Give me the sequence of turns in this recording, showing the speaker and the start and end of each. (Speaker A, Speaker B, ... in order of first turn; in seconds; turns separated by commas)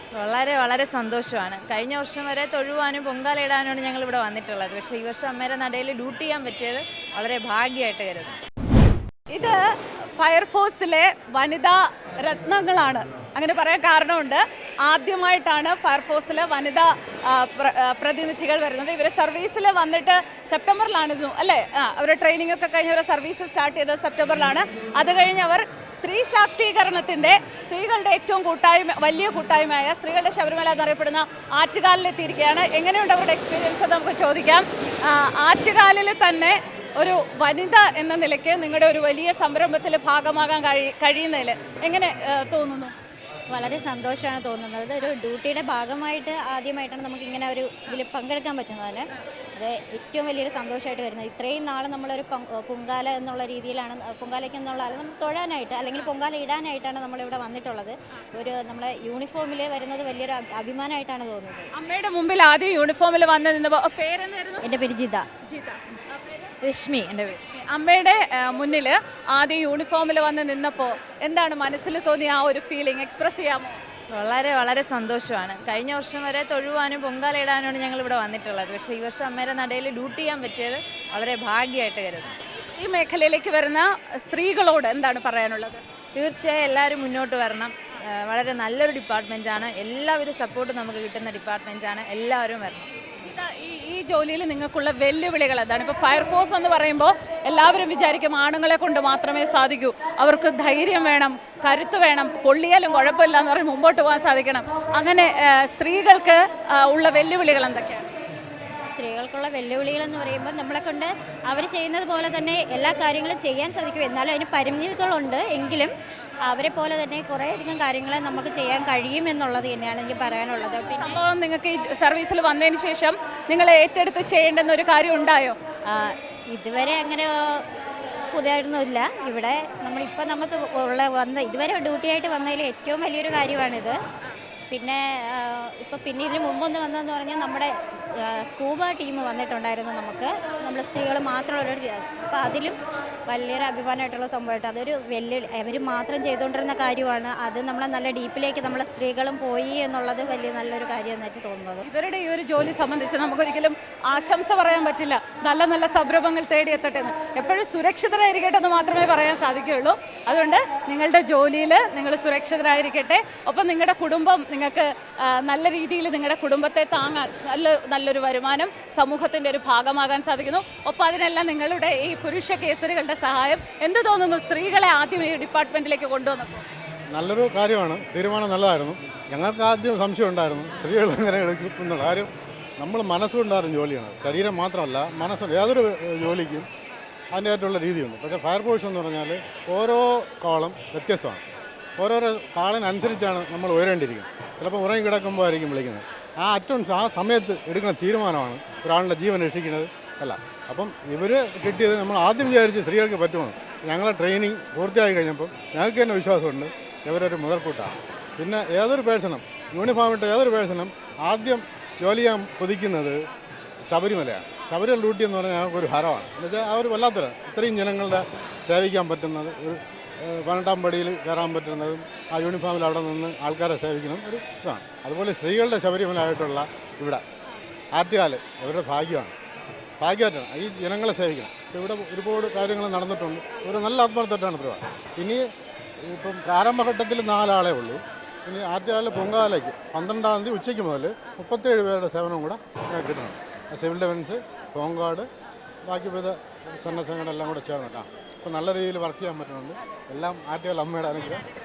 Speaker A: 0.2-8.3, Speaker B: 9.3-42.9, Speaker C: 43.5-61.7, Speaker B: 61.7-64.6, Speaker C: 64.6-65.3, Speaker B: 65.4-66.5, Speaker A: 66.6-67.4, Speaker B: 67.3-73.8, Speaker A: 74.2-82.3, Speaker B: 82.4-85.8, Speaker A: 86.2-92.9, Speaker B: 93.2-108.1, Speaker C: 108.8-115.9, Speaker C: 116.5-121.2, Speaker B: 120.5-125.6, Speaker C: 125.9-127.7, Speaker C: 128.3-134.0, Speaker C: 134.7-151.8, Speaker B: 151.9-176.7, Speaker D: 177.1-186.7, Speaker D: 187.3-191.4, Speaker D: 192.0-213.3, Speaker D: 213.9-227.2, Speaker D: 227.9-229.3, Speaker D: 230.0-235.5, Speaker D: 236.0-245.3, Speaker D: 245.8-251.5